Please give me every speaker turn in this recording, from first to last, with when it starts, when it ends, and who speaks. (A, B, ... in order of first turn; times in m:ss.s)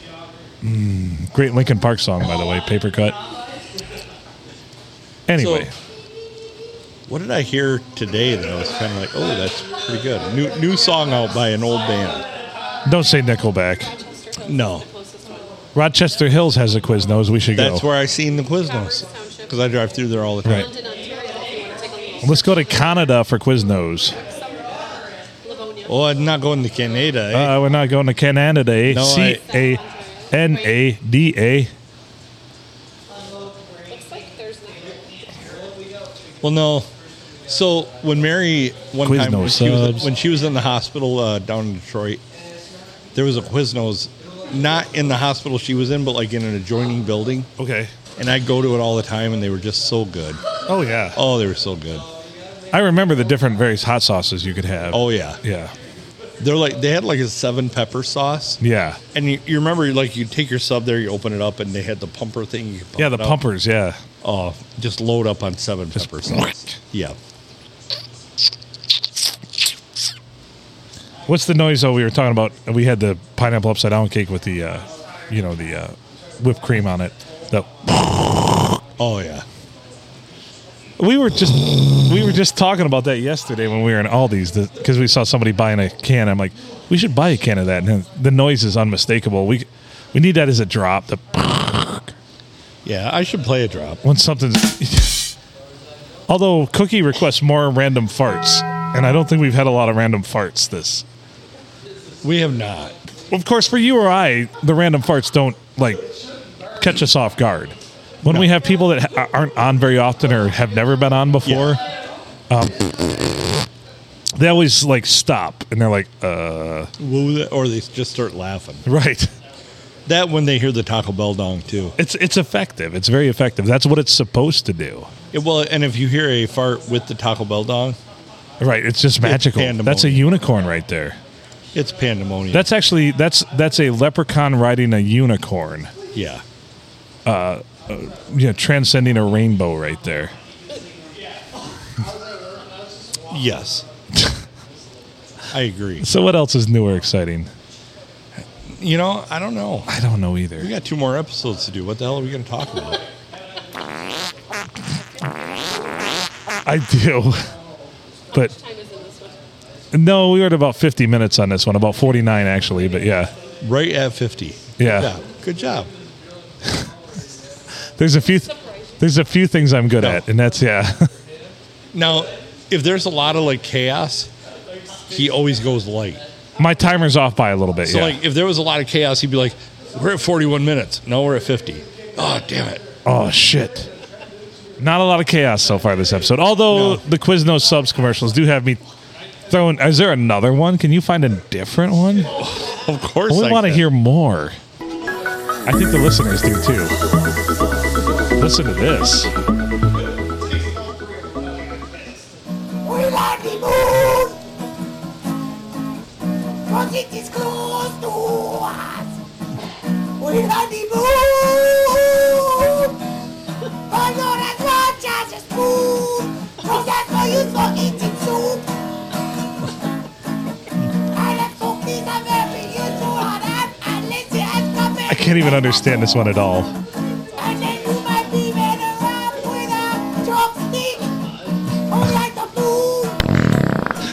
0:00.6-0:03.2 A
0:05.3-0:05.7 A
0:05.3-0:05.7 B
0:07.1-0:12.3 B
0:12.8-0:13.9 A
0:13.9-0:15.6 C
0:14.4-0:14.9 B
0:15.7-0:17.8 A
0:17.5-0:20.7 B
0:18.7-0:19.5 C
0:20.5-0:23.0 C
0:22.2-0:24.2 A
0:24.2-0:26.0 C
0:25.8-0:27.6 B
0:27.3-0:31.7 A
0:28.8-0:29.4 B
0:29.5-0:30.6 C
0:33.8-0:35.3 C
0:36.4-0:36.9 B
0:37.5-0:42.2 B
0:39.0-0:40.1 A
0:43.1-0:47.5 B
0:47.6-0:47.9 A
0:48.2-0:50.4 B
0:50.7-0:51.2 A
0:51.1-0:52.0 B
0:52.7-0:55.7 A
0:54.9-0:55.4 B
0:56.4-0:58.6 B
0:58.6-0:59.0 A
0:59.1-1:03.4 B
1:03.0-1:04.0 A
1:04.2-1:07.2 B
1:11.3-1:18.4 A
1:19.0-1:19.4 B
1:21.0-1:32.1 A
1:32.8-1:34.0 B
1:34.0-1:35.3 A
1:36.3-1:41.0 A
1:42.2-1:42.9 B
1:43.3-1:46.0 A
1:46.8-1:51.8 A
1:48.2-1:48.5 B
1:51.4-1:51.8 B
1:52.5-1:52.9 A
1:54.3-1:56.9 A
1:57.0-1:58.9 B
1:58.8-1:59.3 A
2:00.0-2:01.9 B
2:02.0-2:05.1 A
2:05.3-2:08.0 B
2:08.6-2:11.2 A
2:09.2-2:10.3 B
2:11.7-2:12.7 B
2:12.5-2:15.9 A
2:16.1-2:16.4 B
2:17.2-2:20.3 A
2:23.3-2:23.8 B
2:25.5-2:26.1 B
2:26.0-2:27.5 A
2:28.6-2:29.9 B
2:29.9-2:30.7 A
2:30.6-2:33.0 B
2:36.6-2:37.5 A
2:38.3-2:39.4 C
2:39.9-2:43.3 A
2:43.6-2:45.9 B
2:44.8-2:45.1 A
2:48.0-2:51.1 A
2:50.0-2:50.2 B
2:51.9-2:54.3 B
2:55.1-2:56.2 B
2:56.6-2:58.2 A
2:57.8-3:02.8 B
3:03.0-3:03.9 A
3:04.8-3:08.8 A
3:06.7-3:07.0 B
3:09.5-3:12.3 A
3:12.4-3:13.8 B
3:13.3-3:14.6 A
3:15.6-3:16.9 A
3:18.4-3:19.3 A
3:22.8-3:24.4 D
3:26.7-3:29.1 D
3:30.2-3:32.9 D
3:33.9-3:38.7 D
3:41.1-3:46.1 D
3:45.1-3:46.7 A
3:47.4-3:51.2 D
3:51.8-3:53.4 D